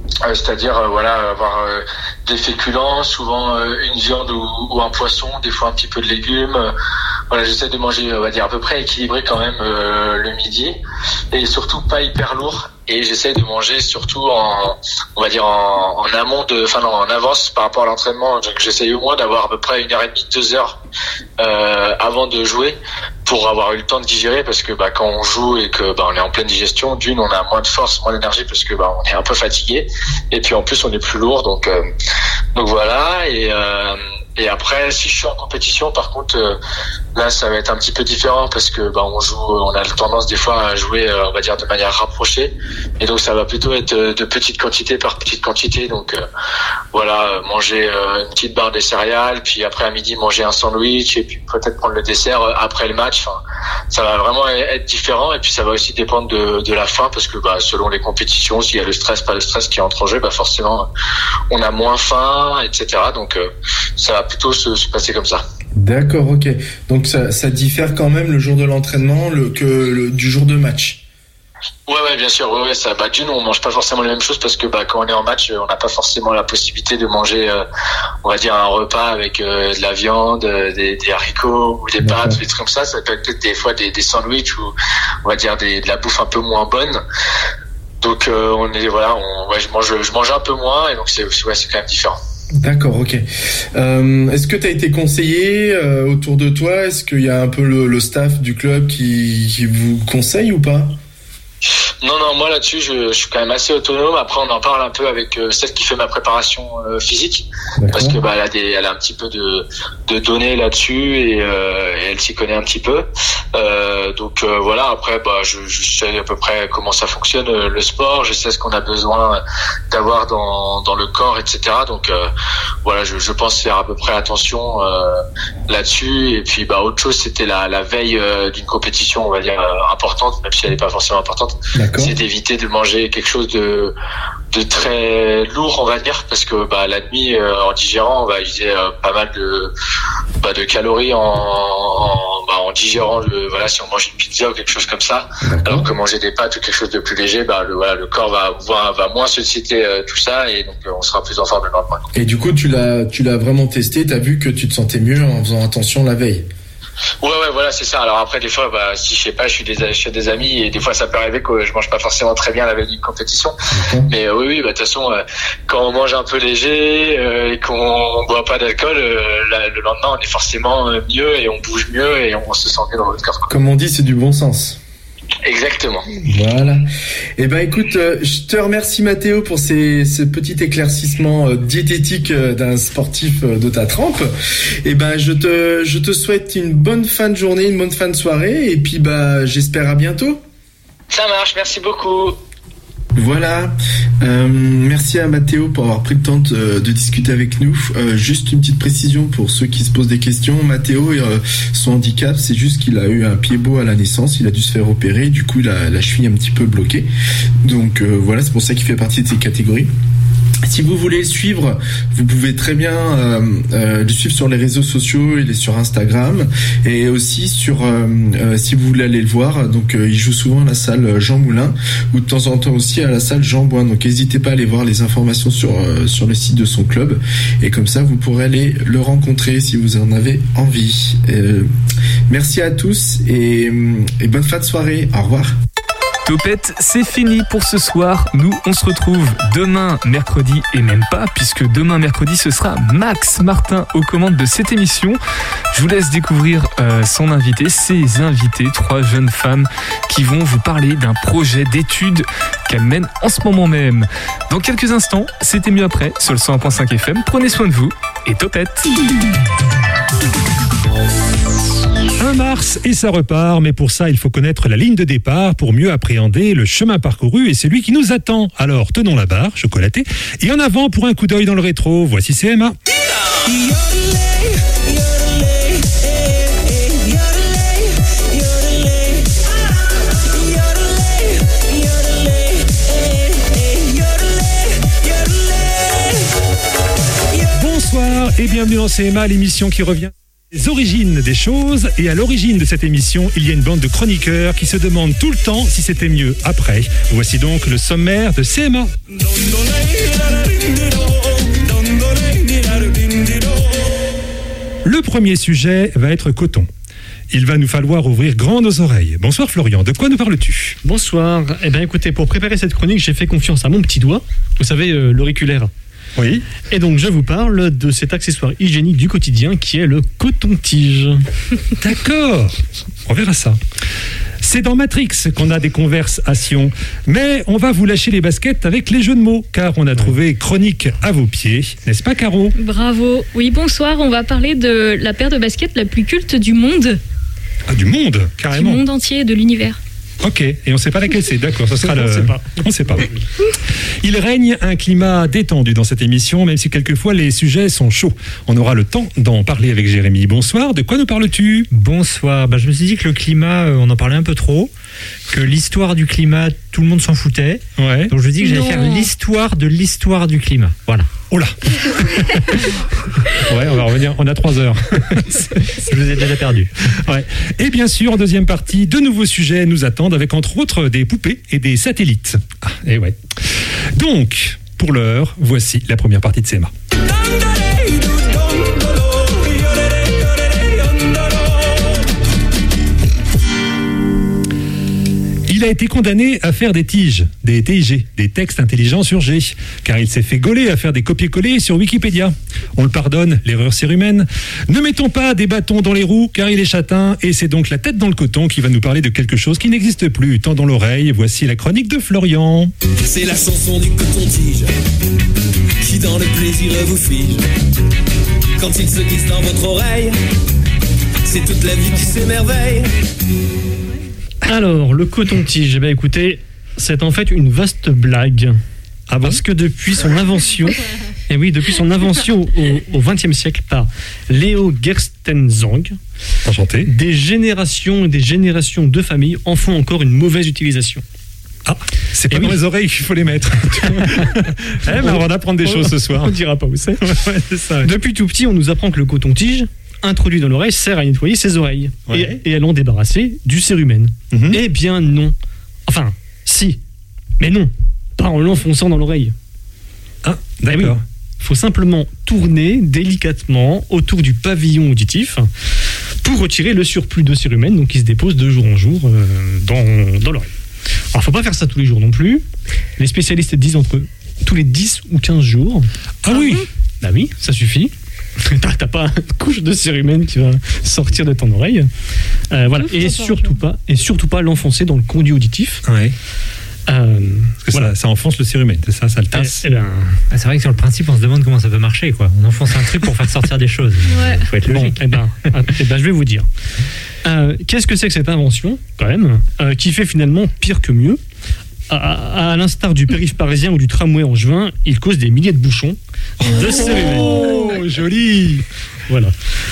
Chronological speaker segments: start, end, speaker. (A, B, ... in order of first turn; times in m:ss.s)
0:00.2-0:06.7 A
0:07.3-0:10.8 A
0:11.3-0:20.8 A
0:21.4-0:31.8 A
0:32.5-0:36.6 A
0:37.1-0:46.2 A
0:46.9-0:53.4 A
0:53.9-1:00.9 A
1:01.5-1:05.4 A
1:05.8-1:11.0 B
1:11.9-1:17.6 A
1:18.2-1:24.7 A
1:22.0-1:22.4 B
1:25.2-1:27.0 A
1:28.0-1:32.2 A
1:32.6-1:41.0 B
1:42.0-2:02.3 A
1:47.8-1:48.2 B
2:02.8-2:13.9 A
2:11.7-2:12.1 B
2:14.5-2:19.7 A
2:20.4-2:32.0 A
2:25.4-2:25.9 B
2:32.1-2:36.4 B
2:37.2-2:43.5 A
2:43.7-2:44.1 B
2:44.1-2:53.4 A
2:53.5-2:54.8 B
2:55.4-2:56.0 A
2:56.2-2:56.8 B
2:57.4-3:04.3 B
3:04.8-3:10.4 B
3:11.1-3:12.4 A
3:13.1-3:27.1 B
3:27.6-3:29.9 B
3:30.6-3:51.7 B
3:52.3-3:55.5 B
3:56.2-4:05.2 C
4:05.7-4:18.9 C
4:22.2-4:32.8 D
4:47.5-4:58.9 D
5:04.8-5:06.7 D
5:07.3-5:10.8 D
5:10.8-5:15.7 E
5:16.2-5:16.4 D
5:16.7-5:21.2 E
5:21.8-5:23.6 D
5:24.4-5:32.5 D
5:32.5-5:37.0 F
5:37.7-5:38.8 D
5:38.5-5:39.8 F
5:40.2-5:43.1 D
5:41.8-5:43.2 E
5:44.0-5:51.7 D
5:51.7-5:54.7 G
5:55.3-6:01.1 G
5:57.8-5:58.1 D
5:58.4-5:59.1 F
6:01.3-6:01.6 D
6:03.5-6:05.2 D
6:05.8-6:06.7 G
6:07.0-6:16.7 D
6:25.5-6:42.7 D
6:43.0-6:44.6 H
6:45.8-6:47.4 H
6:48.6-6:50.1 H
6:51.2-6:52.9 H
6:54.4-6:58.6 E
6:59.1-6:59.4 D
6:59.2-7:06.0 E
7:06.4-7:06.9 D
7:06.9-7:11.0 E
7:11.6-7:16.4 D
7:12.3-7:12.6 E
7:14.9-7:17.1 E
7:17.0-7:17.9 D
7:17.8-7:25.3 E
7:25.9-7:26.8 E
7:27.4-7:29.3 E
7:30.2-7:31.0 D
7:30.7-7:35.5 E
7:36.2-7:40.5 E
7:41.1-7:42.4 E
7:43.0-7:45.9 E
7:46.2-7:46.6 D
7:46.3-7:46.6 F
7:47.0-7:51.9 E
7:52.5-7:55.8 E
7:52.7-7:53.6 F
7:55.8-7:56.1 D
7:56.9-7:57.9 E
7:57.6-7:59.6 D
7:59.3-8:00.2 E
8:00.3-8:05.1 G
8:04.0-8:04.5 F
8:04.6-8:06.5 E
8:07.2-8:11.2 E
8:11.9-8:17.8 E
8:16.4-8:18.6 D
8:19.1-8:19.3 E